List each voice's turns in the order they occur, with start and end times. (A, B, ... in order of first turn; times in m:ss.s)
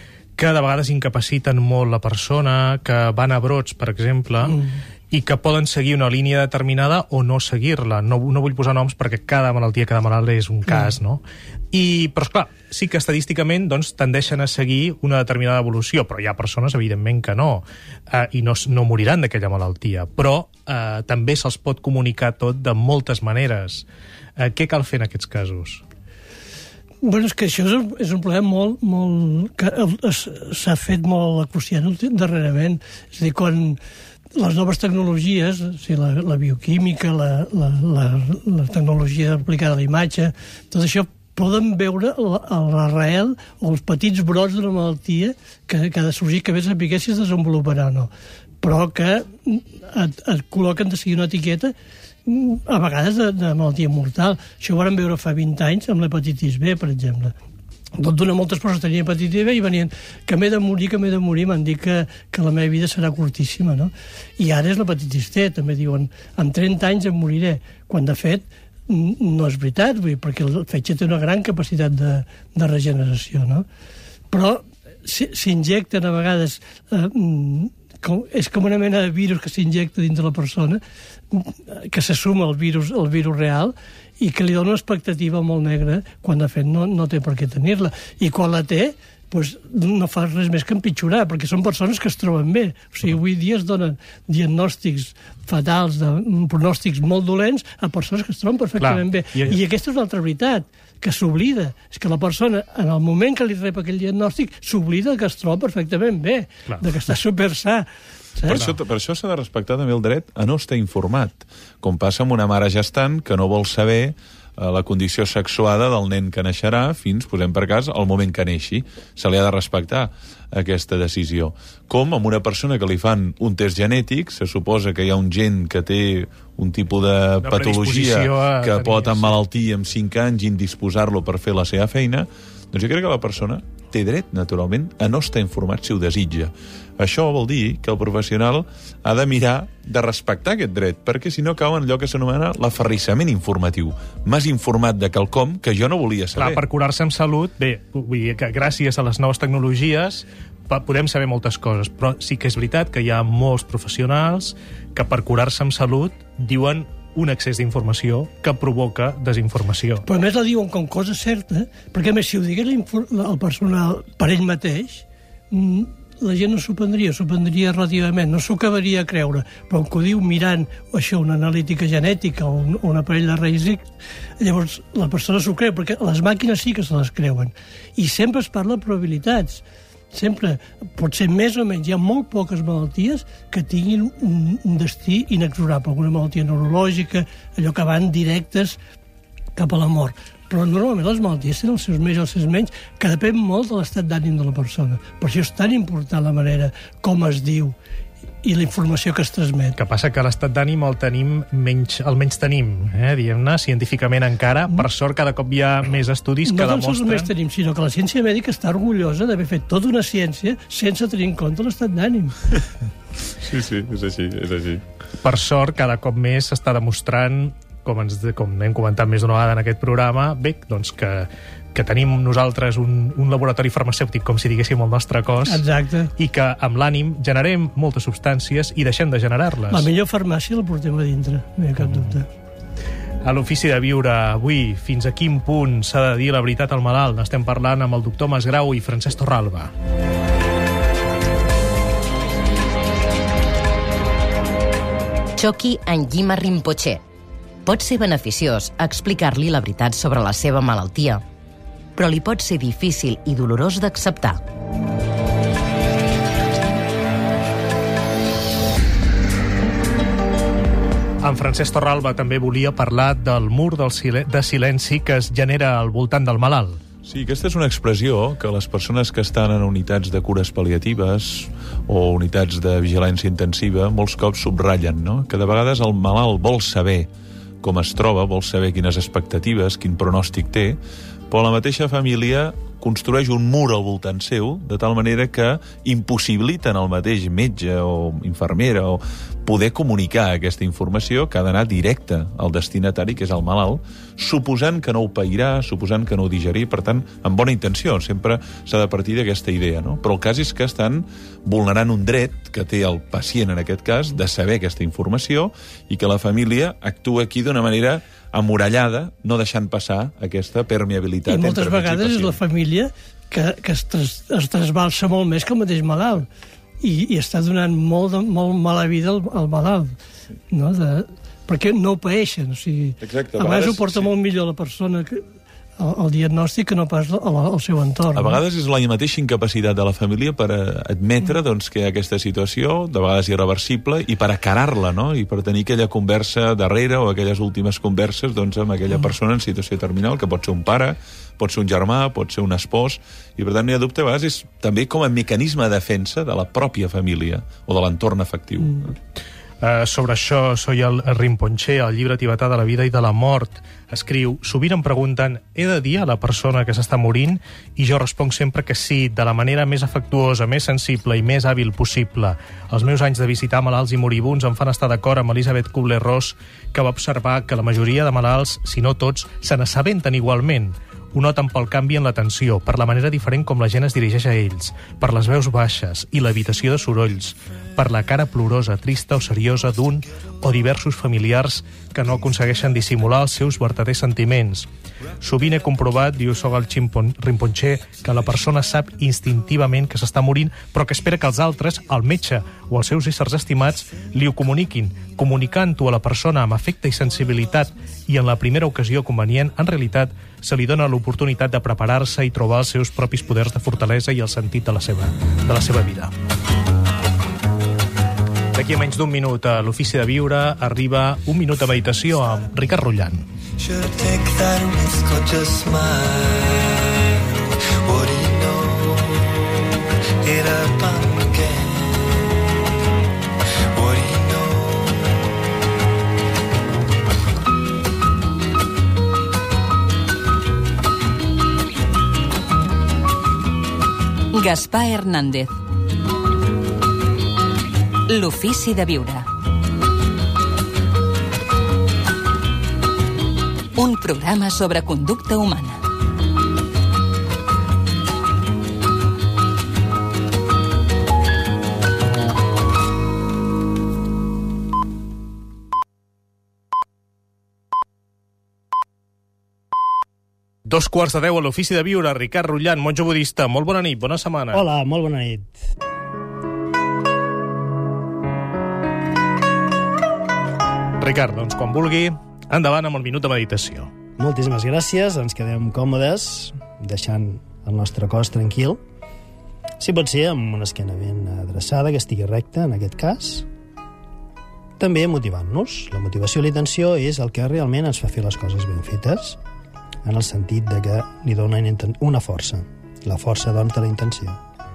0:00.4-0:04.6 A
0:04.5-0:04.8 B
0:05.1-0:23.8 A
0:10.7-0:10.9 B
0:24.4-0:25.8 A
0:27.0-0:33.8 B
0:34.4-0:48.1 B
0:48.6-0:51.7 B
0:52.3-0:57.3 B
0:58.0-1:13.6 B
1:14.3-1:20.8 B
1:21.3-1:48.6 B
1:38.8-1:39.6 A
1:48.5-2:26.6 C
2:07.4-2:09.4 A
2:26.4-2:40.0 A
2:40.1-2:53.8 B
2:54.4-3:08.8 B
3:09.6-3:17.8 B
3:18.4-3:19.8 B
3:19.8-3:27.3 A
3:26.5-3:32.4 B
3:33.4-3:34.8 C
3:35.2-3:45.6 A
3:45.5-3:46.1 B
3:46.2-3:49.9 A
3:49.7-3:52.3 B
3:53.2-3:59.7 A
4:05.4-4:07.0 D
4:07.6-4:11.2 D
4:12.0-4:14.4 D
4:21.2-4:26.8 A
4:27.0-4:37.1 C
4:37.6-5:12.4 C
5:11.3-5:16.3 B
5:16.8-5:20.0 B
5:20.5-5:25.2 B
5:23.0-5:24.1 C
5:25.8-5:28.4 B
5:28.1-5:48.9 C
5:49.6-6:24.7 A
6:25.2-6:46.1 A
6:48.5-6:53.2 A
6:53.6-6:57.0 E
6:57.8-6:59.3 E
7:00.2-7:02.2 E
7:03.7-7:05.0 E
7:14.3-7:15.5 F
7:18.1-7:19.3 F
7:23.8-7:25.8 F
7:40.7-7:44.6 A
7:44.5-7:45.6 G
7:51.0-7:53.9 A
7:54.2-7:58.8 G
7:59.8-8:03.5 G
8:04.8-8:09.4 G
8:10.0-8:14.4 G